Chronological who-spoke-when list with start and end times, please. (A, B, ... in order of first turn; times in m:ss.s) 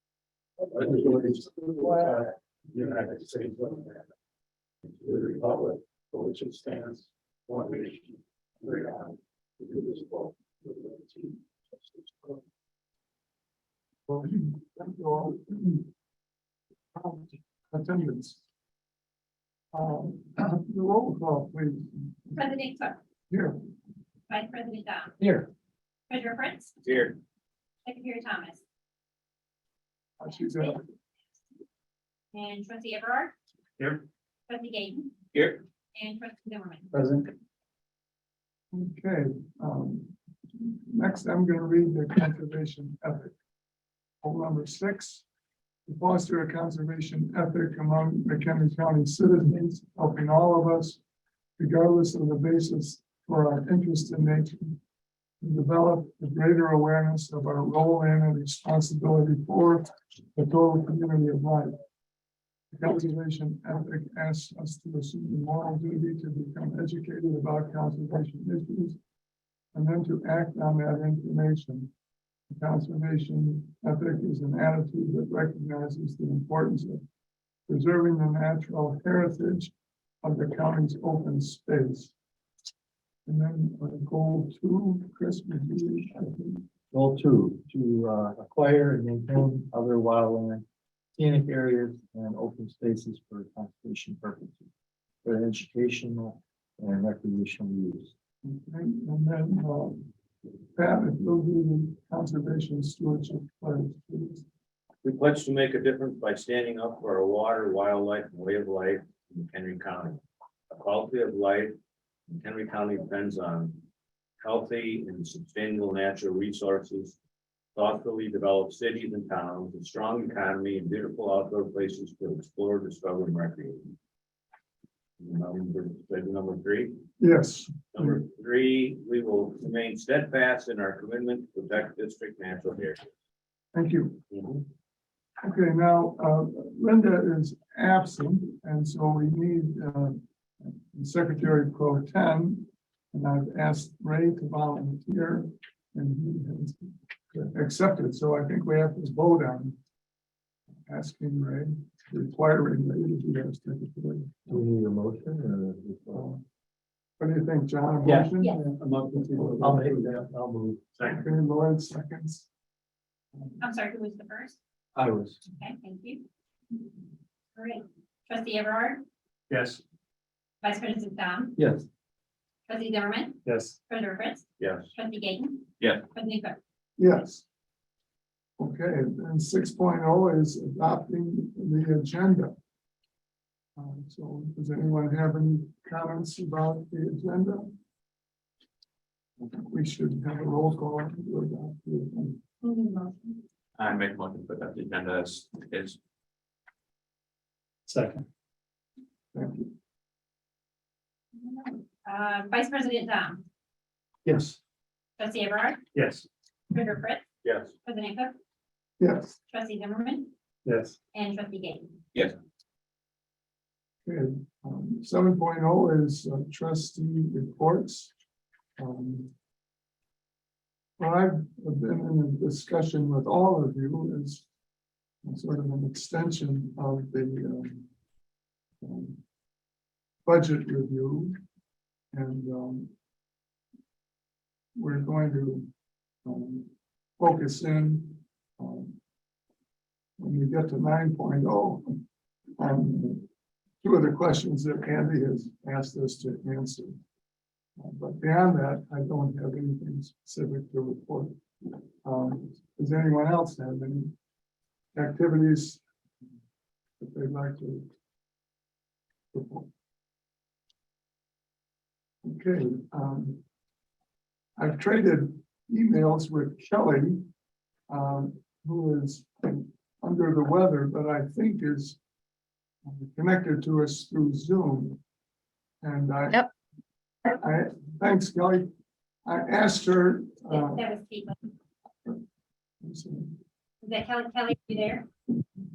0:00.9-0:02.0 A
0:02.8-0:03.8 B
0:05.1-0:07.0 B
0:07.5-0:07.9 B
0:09.8-0:10.2 B
0:14.1-0:15.9 C
0:16.9-0:18.4 C
0:19.7-0:22.4 C
0:22.4-0:23.0 D
0:23.3-0:23.5 C
0:24.3-0:25.2 D
0:26.1-0:26.8 D
0:26.8-0:27.2 E
0:27.8-0:28.6 D
0:30.2-0:30.8 C
0:32.3-0:33.3 D
0:34.5-0:35.2 D
0:35.3-0:35.6 E
0:35.9-0:36.9 D
0:36.9-0:37.2 A
0:38.7-0:43.3 C
0:44.2-0:45.2 C
0:45.9-0:51.0 C
0:51.6-0:54.8 C
0:55.4-1:01.8 C
1:02.7-1:09.0 C
1:09.7-1:11.9 C
1:12.5-1:17.0 C
1:17.7-1:19.7 C
1:20.2-1:22.1 C
1:23.2-1:26.6 C
1:26.9-1:30.6 A
1:31.2-1:34.7 A
1:35.2-1:38.1 A
1:38.4-1:40.1 C
1:40.7-1:44.4 C
1:45.0-1:51.8 E
1:52.3-1:53.8 E
1:54.4-1:57.2 E
1:57.7-2:03.9 E
2:05.2-2:07.0 E
2:07.2-2:08.2 C
2:07.9-2:13.0 E
2:13.7-2:14.6 C
2:15.4-2:29.8 C
2:30.9-2:34.6 C
2:34.5-2:36.3 A
2:36.1-2:36.4 C
2:37.2-2:40.0 C
2:38.0-2:40.8 A
2:41.0-2:42.5 C
2:43.6-2:44.6 D
2:45.0-2:45.4 A
2:45.5-2:46.2 D
2:47.6-2:49.0 D
2:49.5-2:49.8 B
2:50.6-2:51.6 D
2:52.7-2:56.6 D
2:53.5-2:53.7 B
2:54.6-2:54.9 E
2:57.0-2:57.4 C
2:58.6-3:02.5 C
3:03.8-3:07.7 C
3:09.4-3:12.4 C
3:12.6-3:13.4 D
3:13.8-3:16.0 E
3:17.9-3:18.2 B
3:19.3-3:19.7 C
3:21.3-3:23.4 D
3:24.2-3:24.6 B
3:25.2-3:25.8 D
3:25.9-3:26.2 B
3:26.7-3:28.3 D
3:27.4-3:27.7 E
3:29.0-3:29.4 C
3:29.5-3:30.3 D
3:30.6-3:31.0 B
3:31.1-3:32.0 D
3:34.0-3:38.1 C
3:38.8-3:39.3 C
3:41.0-3:44.4 C
3:45.2-3:47.9 C
3:48.8-3:49.2 C
3:50.2-3:51.4 C
3:52.1-3:52.9 C
3:54.8-3:55.7 C
3:56.2-3:59.0 C
4:00.2-4:02.0 C
4:02.6-4:03.3 C
4:03.8-4:07.0 C
4:07.8-4:14.1 C
4:14.9-4:15.8 C
4:17.0-4:17.9 C
4:19.3-4:19.7 C
4:22.2-4:23.4 C
4:24.6-4:27.3 C
4:27.9-4:32.0 C
4:32.8-4:35.0 C
4:35.8-4:36.5 C
4:37.3-4:38.7 C
4:39.2-4:40.9 C
4:40.5-4:41.4 D
4:42.8-4:43.4 C
4:43.8-4:45.1 D